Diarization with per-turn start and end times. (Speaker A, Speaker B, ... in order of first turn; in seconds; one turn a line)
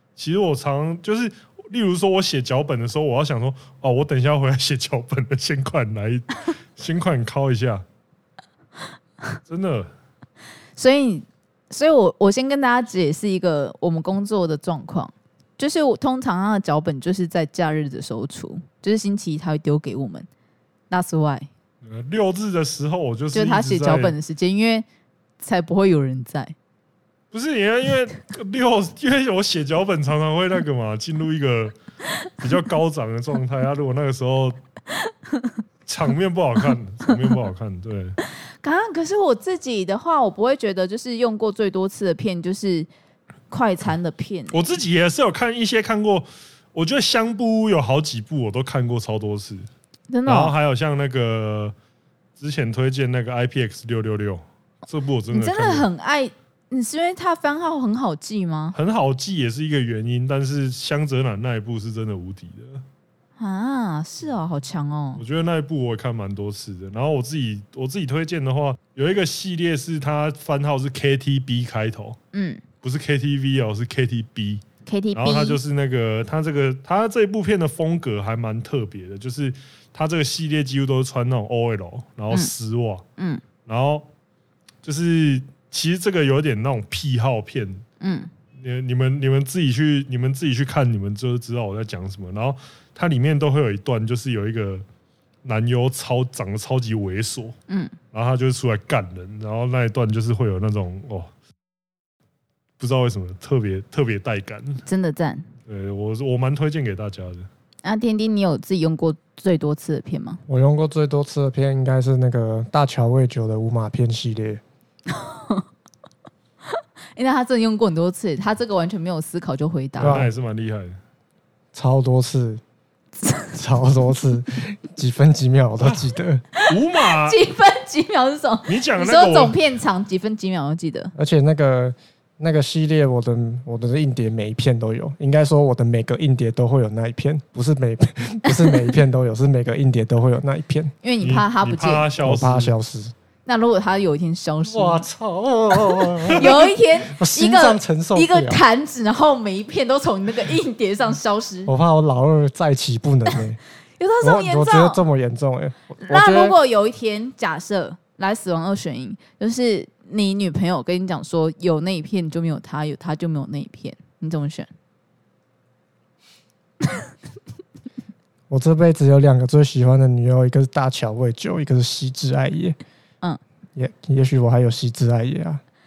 Speaker A: 0.2-7.8
Speaker A: 9.5-9.9
Speaker B: 10.8-20.3
Speaker B: 20.9-21.5
Speaker A: 21.8-24.1
Speaker B: 23.3-24.8
Speaker B: 25.4-26.5
Speaker A: 27.3-31.7
Speaker A: 32.4-34.6
Speaker A: 35.9-38.2
Speaker B: 38.6-42.9
Speaker B: 43.5-44.6
Speaker A: 44.5-49.7
Speaker B: 50.1-50.5
Speaker A: 50.2-51.7
Speaker A: 52.4-55.9
Speaker B: 55.3-58.8
Speaker A: 58.7-62.8
Speaker B: 63.4-65.2
Speaker A: 65.2-72.2
Speaker B: 72.3-72.6
Speaker A: 72.8-83.0
Speaker B: 74.8-75.6
Speaker B: 83.2-83.4
Speaker A: 83.6-84.0
Speaker A: 84.8-87.8
Speaker B: 88.0-88.3
Speaker A: 88.5-94.8
Speaker A: 95.4-97.5
Speaker B: 97.7-98.0
Speaker A: 98.1-101.3
Speaker A: 102.8-104.8
Speaker B: 104.8-105.5
Speaker A: 105.7-107.5
Speaker B: 107.8-110.4
Speaker C: 110.5-114.6
Speaker B: 115.1-115.6
Speaker B: 117.2-120.2
Speaker A: 120.0-121.0
Speaker C: 120.0-120.3
Speaker C: 121.7-122.6
Speaker C: 123.5-126.4
Speaker B: 126.5-131.1
Speaker A: 126.7-127.4
Speaker A: 128.7-129.6
Speaker C: 131.1-140.9
Speaker B: 138.4-138.9
Speaker B: 141.0-142.1
Speaker A: 141.2-142.7
Speaker C: 142.2-143.1
Speaker B: 143.4-145.1
Speaker C: 144.7-148.6
Speaker B: 146.3-151.7
Speaker C: 151.7-153.6
Speaker B: 154.0-155.0
Speaker C: 154.2-156.6
Speaker B: 156.1-164.7
Speaker C: 168.5-172.8
Speaker C: 173.8-175.6